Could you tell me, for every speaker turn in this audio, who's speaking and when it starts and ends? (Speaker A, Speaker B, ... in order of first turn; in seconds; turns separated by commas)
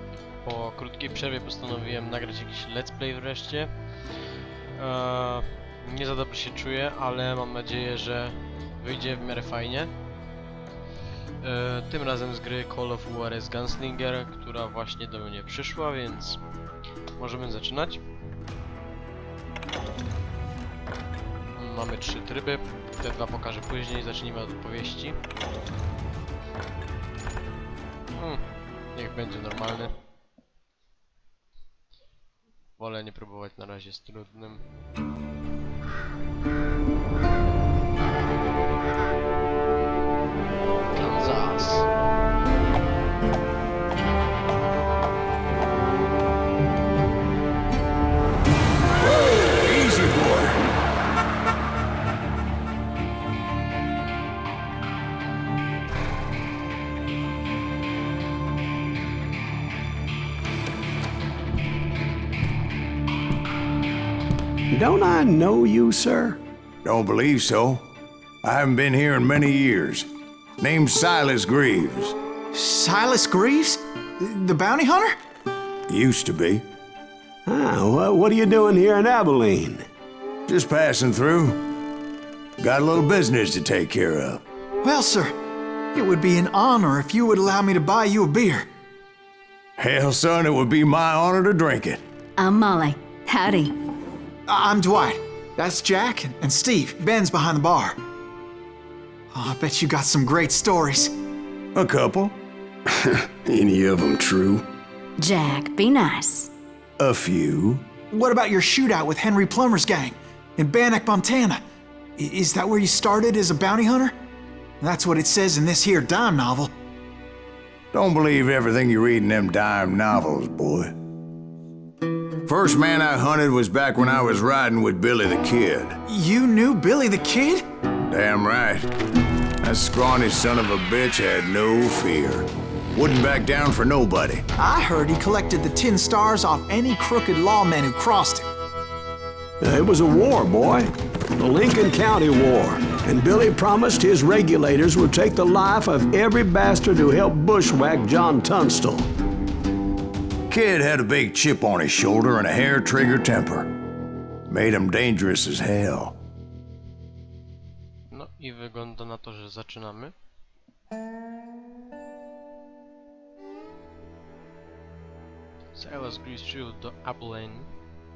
Speaker A: 0.4-3.7, Speaker A: 4.7-9.9, Speaker A: 11.4-16.4, Speaker A: 17.2-18.0, Speaker A: 21.5-25.2, Speaker A: 28.1-28.4, Speaker A: 28.9-29.9, Speaker A: 32.8-34.6, Speaker A: 40.9-41.9, Speaker B: 49.0-50.6, Speaker C: 64.7-66.4, Speaker B: 66.8-67.8, Speaker B: 68.4-70.1, Speaker B: 70.6-72.2, Speaker D: 72.5-75.2, Speaker B: 75.9-76.7, Speaker C: 77.5-79.8, Speaker B: 80.5-81.6, Speaker B: 82.6-84.4, Speaker D: 84.8-85.3, Speaker D: 85.9-88.7, Speaker B: 89.8-92.0, Speaker E: 92.4-93.8, Speaker D: 94.5-98.0, Speaker D: 99.3-101.1, Speaker B: 101.8-102.4, Speaker C: 102.9-104.6, Speaker E: 105.2-106.5, Speaker B: 107.0-107.9, Speaker D: 108.1-111.6, Speaker D: 112.2-114.1, Speaker D: 114.8-116.7, Speaker B: 117.9-120.9, Speaker B: 122.5-126.0, Speaker D: 126.1-127.6, Speaker B: 128.1-128.9, Speaker B: 129.6-134.4, Speaker D: 134.6-138.5, Speaker C: 139.6-149.1, Speaker B: 150.5-153.7, Speaker B: 154.5-156.1, Speaker A: 158.1-160.2, Speaker A: 165.8-167.7